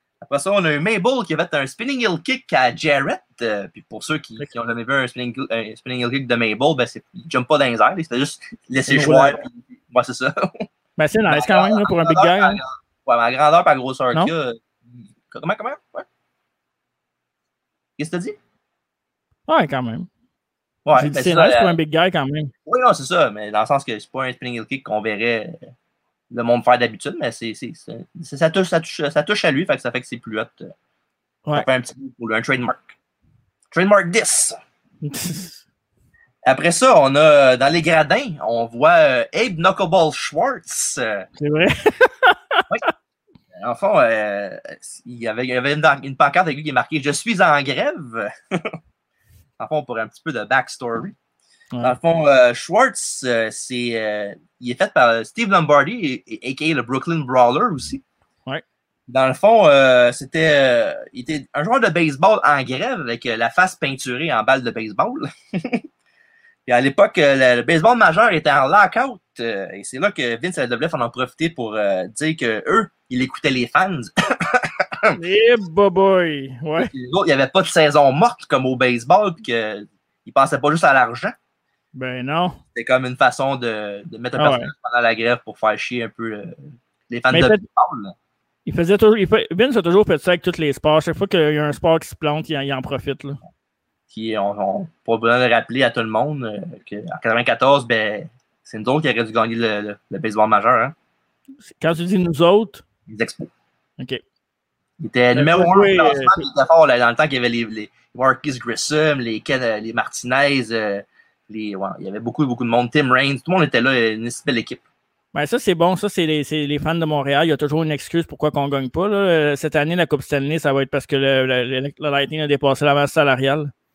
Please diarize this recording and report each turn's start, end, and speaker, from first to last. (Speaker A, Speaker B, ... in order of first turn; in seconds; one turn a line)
Speaker A: 0.2-10.7
Speaker B: 8.9-9.4
Speaker B: 11.0-12.6
Speaker A: 11.3-14.6
Speaker A: 15.3-16.1
Speaker A: 18.0-18.4
Speaker B: 19.5-20.1
Speaker A: 20.9-21.8
Speaker B: 21.0-22.5
Speaker A: 22.7-25.7
Speaker A: 26.3-30.7
Speaker A: 31.5-32.9
Speaker A: 33.7-34.6
Speaker B: 35.0-35.6
Speaker A: 36.5-41.3
Speaker B: 41.4-42.9
Speaker A: 43.6-48.8
Speaker A: 49.6-51.1
Speaker A: 51.8-58.0
Speaker A: 59.1-65.8
Speaker A: 66.7-75.1
Speaker B: 75.2-76.9
Speaker A: 76.9-81.3
Speaker B: 82.0-82.6
Speaker A: 82.8-88.1
Speaker B: 84.4-84.7
Speaker B: 87.3-87.6
Speaker B: 88.7-93.4
Speaker A: 94.1-100.9
Speaker B: 101.7-102.8
Speaker A: 103.1-103.5
Speaker A: 105.0-114.8
Speaker B: 105.3-106.4
Speaker B: 115.3-123.7